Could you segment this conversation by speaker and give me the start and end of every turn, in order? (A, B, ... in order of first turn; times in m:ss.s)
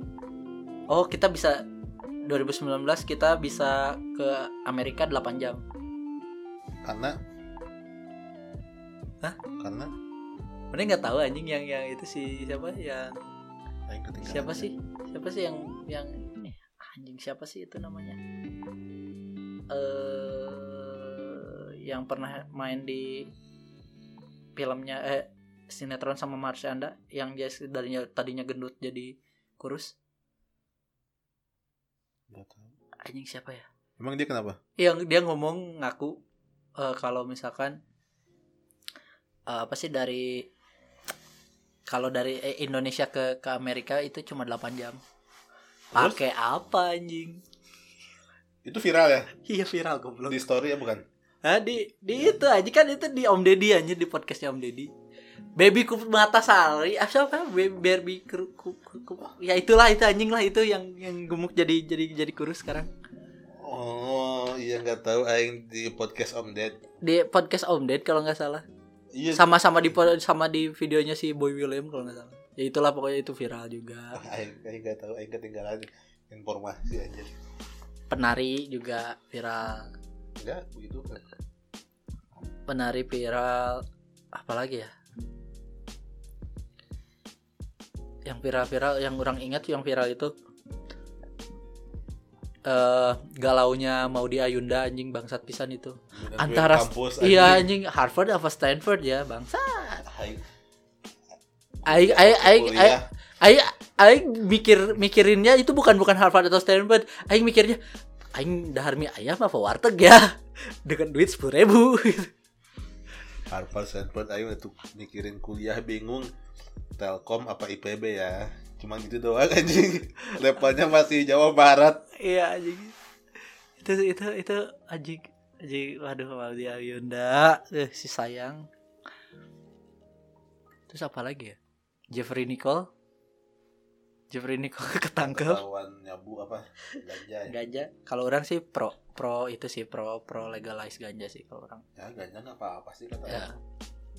0:00.9-0:01.6 A
0:02.3-0:05.6 A
0:06.8-0:07.2 B
0:09.6-0:09.9 B
0:10.7-0:13.2 A
0:13.9-0:14.7 B
0:14.2-0:18.2 A
0:19.7-0:23.3 A
0:24.6-0:30.0 A
0:32.3-0:32.7 B
0:33.0-0:33.7 A
0:34.0-0:34.6 B
0:34.8-0:36.2 A
0:36.8-0:37.8 A
0:39.5-0:40.5 A
0:41.9-0:45.0 A
0:45.9-0:46.2 B
0:45.9-0:47.4 A
0:48.6-0:49.3 B
0:49.4-0:50.4 A
0:50.3-0:51.0 B
0:51.4-0:54.9 A
0:55.6-1:02.9 A
1:03.6-1:06.8 B
1:07.0-1:08.6 A
1:09.1-1:09.5 B
1:09.3-1:14.2 A
1:14.2-1:17.3 B
1:18.1-1:19.9 A
1:20.4-1:21.2 B
1:22.7-1:24.9 A
1:28.3-1:30.3 A
1:32.7-1:40.0 A
1:36.1-1:37.7 B
1:40.0-1:40.4 B
1:41.8-1:43.0 B
1:41.9-1:47.8 A
1:48.4-1:52.3 A
1:53.5-1:56.3 B
1:57.0-2:02.0 B
2:02.2-2:03.0 A
2:03.8-2:08.7 A
2:10.9-2:11.6 A
2:12.1-2:12.9 A
2:14.3-2:15.6 A
2:15.2-2:17.5 B
2:17.5-2:21.8 A
2:22.0-2:23.5 B
2:23.3-2:23.6 A